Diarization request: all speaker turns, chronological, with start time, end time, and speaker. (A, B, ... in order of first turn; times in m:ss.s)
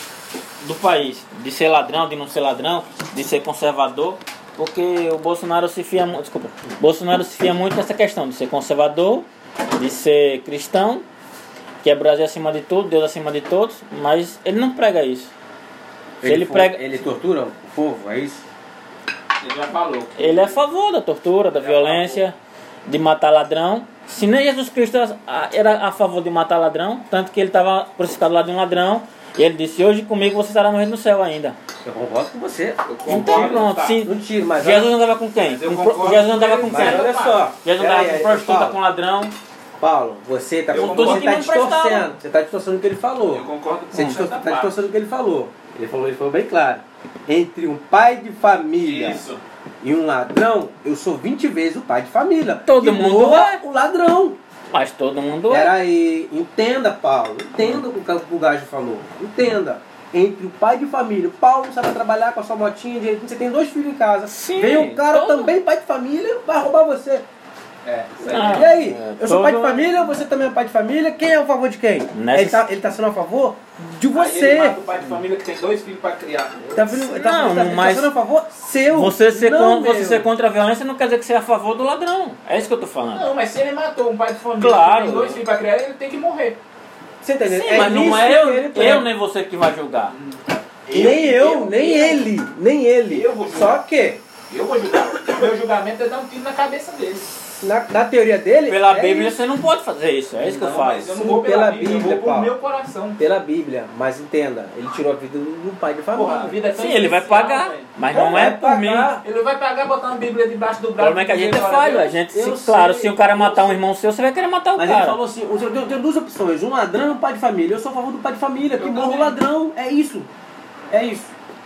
0:00.6-0:11.1 A
0:11.8-0:15.3 A
0:16.2-0:18.4 B
0:16.2-0:16.8 A
0:19.4-0:20.6 C
0:20.2-0:22.4 A
0:21.5-0:22.2 C
0:22.9-0:31.6 A
0:31.8-0:34.9 B
0:32.8-0:34.0 C
0:33.1-0:39.3 A
0:35.4-0:37.5 C
0:36.7-0:38.8 B
0:39.8-0:49.2 B
0:40.7-0:41.3 C
0:40.8-0:42.1 A
0:43.3-0:44.8 C
0:48.8-0:49.4 C
0:49.8-0:54.4 B
0:52.7-0:53.6 A
0:54.7-0:55.7 A
0:55.5-1:07.2 B
1:04.3-1:05.5 A
1:07.8-1:08.7 C
1:08.3-1:10.1 A
1:08.3-1:14.8 B
1:12.1-1:12.6 A
1:14.1-1:16.7 C
1:16.7-1:20.3 B
1:16.9-1:18.1 A
1:18.9-1:23.3 A
1:23.1-1:26.6 C
1:24.6-1:25.4 A
1:27.2-1:29.1 B
1:27.5-1:30.2 A
1:30.1-1:32.3 C
1:30.9-1:34.2 B
1:33.1-1:33.8 C
1:34.5-1:37.3 C
1:37.6-1:39.4 B
1:38.7-1:41.1 A
1:40.4-1:43.2 C
1:41.1-1:42.5 B
1:43.2-1:46.6 B
1:46.1-1:47.9 C
1:46.8-1:49.1 A
1:48.1-1:49.2 B
1:49.2-1:52.2 C
1:51.0-1:55.2 A
1:52.3-1:53.8 B
1:54.8-2:00.3 B
1:58.7-1:59.4 C
2:00.9-2:01.3 B